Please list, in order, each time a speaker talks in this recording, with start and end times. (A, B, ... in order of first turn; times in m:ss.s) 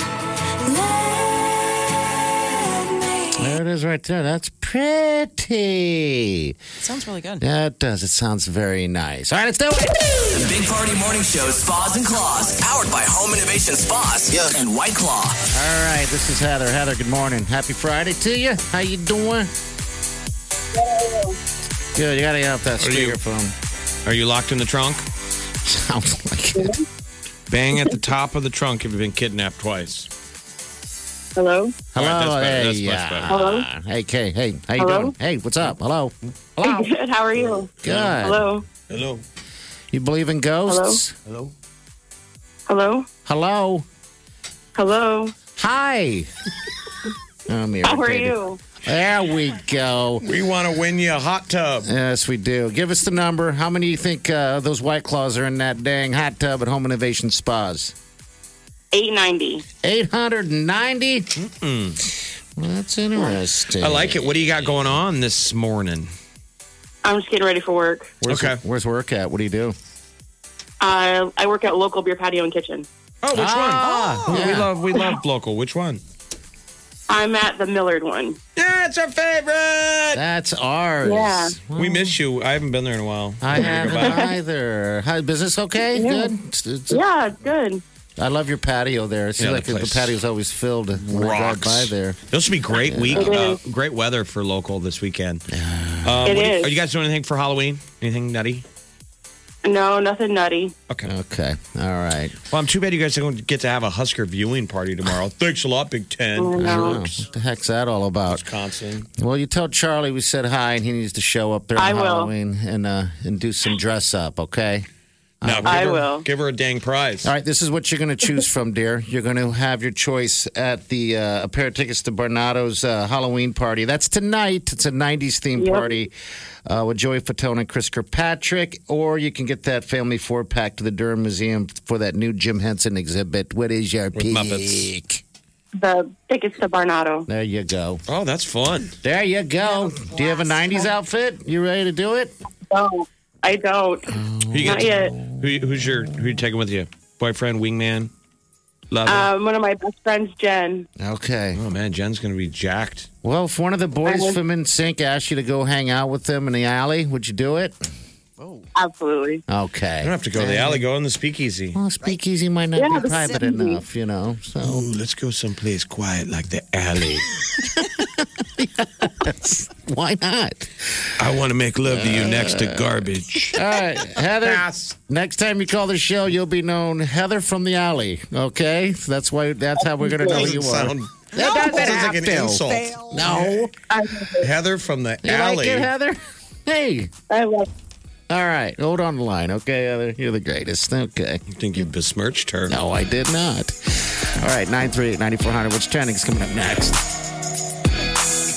0:00.6-0:03.6 A
0:03.4-0:06.6 B
0:06.8-0:07.4 C
0:07.4-0:10.1 B
0:10.3-0:15.4 D
0:15.5-0:19.5 B
0:20.7-0:21.4 E
0:21.9-0:23.5 B
0:22.8-0:23.2 F
0:24.0-0:25.0 F
0:25.6-0:26.7 B
0:26.6-0:26.8 E
0:27.5-0:30.1 F
0:31.4-0:31.8 E
0:31.9-0:36.9 B
0:32.0-0:33.3 F
0:33.3-0:33.6 E
0:34.8-0:35.1 E
0:36.6-0:38.6 E
0:37.8-0:38.5 B
0:37.8-0:38.2 F
0:38.9-0:39.2 F
0:39.9-0:41.1 B
0:40.7-0:41.0 E
0:41.3-0:41.5 F
0:42.7-0:43.1 E
0:43.2-0:43.8 B
0:44.7-0:45.3 E
0:45.6-0:46.3 B
0:47.5-0:50.2 B
0:47.8-0:48.6 E
0:50.2-0:51.9 F
0:51.8-0:57.9 B
0:58.9-0:59.6 E
0:59.8-1:01.3 B
1:01.4-1:02.0 F
1:02.6-1:04.7 B
1:03.8-1:06.1 F
1:07.0-1:08.1 E
1:08.2-1:09.8 B
1:08.3-1:08.6 F
1:10.8-1:12.8 E
1:13.2-1:16.0 F
1:13.3-1:14.7 B
1:17.1-1:18.4 E
1:18.6-1:20.2 F
1:20.1-1:22.1 B
1:21.0-1:21.5 E
1:21.8-1:24.2 F
1:23.4-1:27.0 B
1:25.9-1:26.3 E
1:26.9-1:27.8 E
1:28.2-1:32.2 B
1:29.4-1:30.2 F
1:31.0-1:35.4 F
1:32.7-1:33.4 B
1:33.2-1:33.6 E
1:35.5-1:36.4 B
1:36.0-1:38.6 F
1:36.2-1:36.7 E
1:39.6-1:40.7 E
1:41.0-1:42.4 B
1:42.5-1:47.2 F
1:46.4-1:47.0 E
1:46.5-1:48.4 B
1:48.3-1:49.0 F
1:49.1-1:54.8 B
1:51.8-1:52.3 E
1:55.4-1:56.0 B
1:55.4-1:57.3 F
1:55.7-1:56.2 E
1:57.2-2:06.1 B
2:05.6-2:05.9 E
2:06.6-2:15.2 B
2:14.1-2:14.9 F
2:15.8-2:17.3 E
2:17.3-2:18.0 B
2:18.1-2:19.0 F
2:19.0-2:22.4 B
2:19.7-2:20.5 C
2:22.7-2:24.1 E
2:24.1-2:25.9 B
2:24.5-2:28.1 F
2:24.6-2:25.1 E
2:28.9-2:29.3 F
2:29.1-2:30.9 E
2:31.0-2:31.6 B
2:31.6-2:33.1 F
2:33.2-2:37.8 B
2:34.0-2:34.4 E
2:38.7-2:39.4 E
2:39.5-2:40.8 B
2:40.0-2:41.8 F
2:41.7-2:44.8 B
2:42.8-2:43.8 E
2:44.6-2:47.3 F
2:47.6-2:51.1 B
2:51.2-2:53.6 F
2:51.8-3:03.7 B
2:54.2-2:54.9 F
3:00.1-3:00.4 E
3:00.2-3:03.7 F
3:01.4-3:03.3 C
3:03.9-3:04.4 E
3:04.4-3:05.9 F
3:05.2-3:07.1 B
3:07.3-3:07.7 E
3:08.3-3:11.4 B
3:11.5-3:12.8 F
3:12.7-3:17.0 B